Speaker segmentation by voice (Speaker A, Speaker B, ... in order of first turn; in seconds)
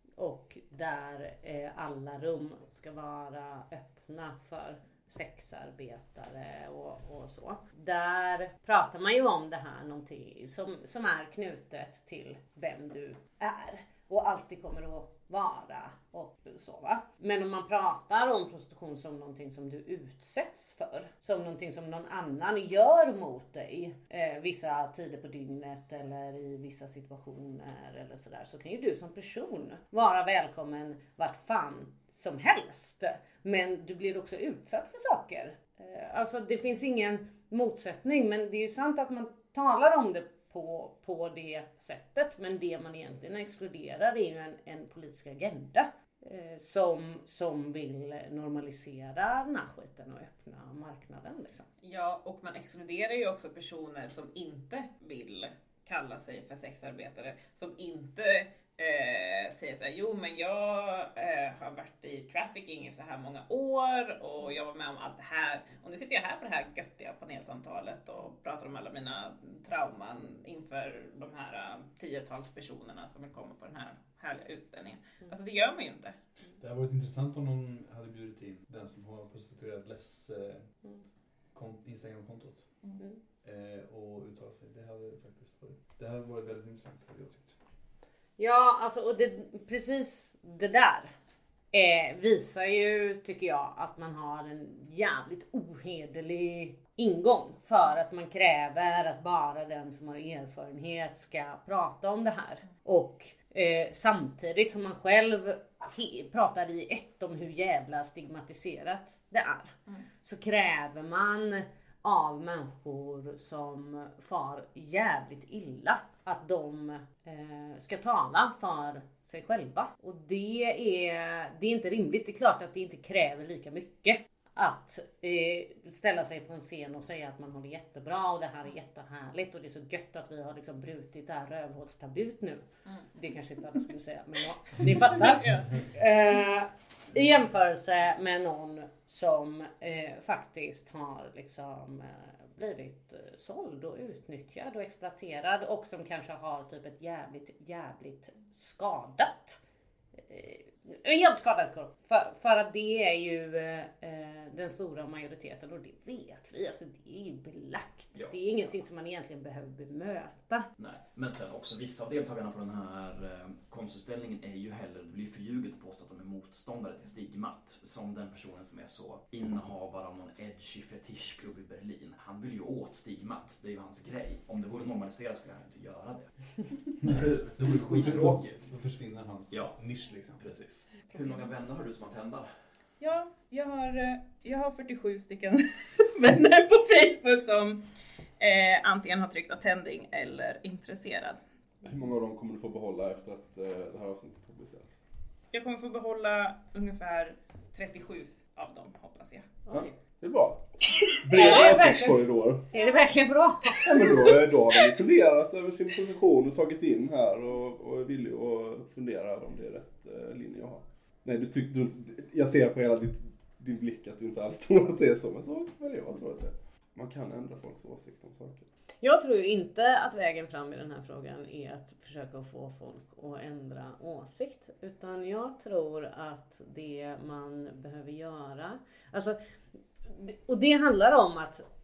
Speaker A: 0.2-51.7, 88.4-91.1, 91.7-132.6, 133.1-149.6, 150.3-160.7, 201.3-204.3, 219.0-229.4, 230.0-231.6
Speaker B: 51.8-76.2, 135.3-135.8, 183.0-187.8, 188.4-191.4, 195.5-199.6, 201.3-201.8, 202.7-203.0
Speaker C: 76.6-80.7, 81.5-82.7, 83.4-87.5, 177.0-180.4
Speaker D: 160.8-178.7, 179.5-179.8, 180.4-182.5
Speaker E: 191.8-195.0, 199.7-202.7, 203.8-218.7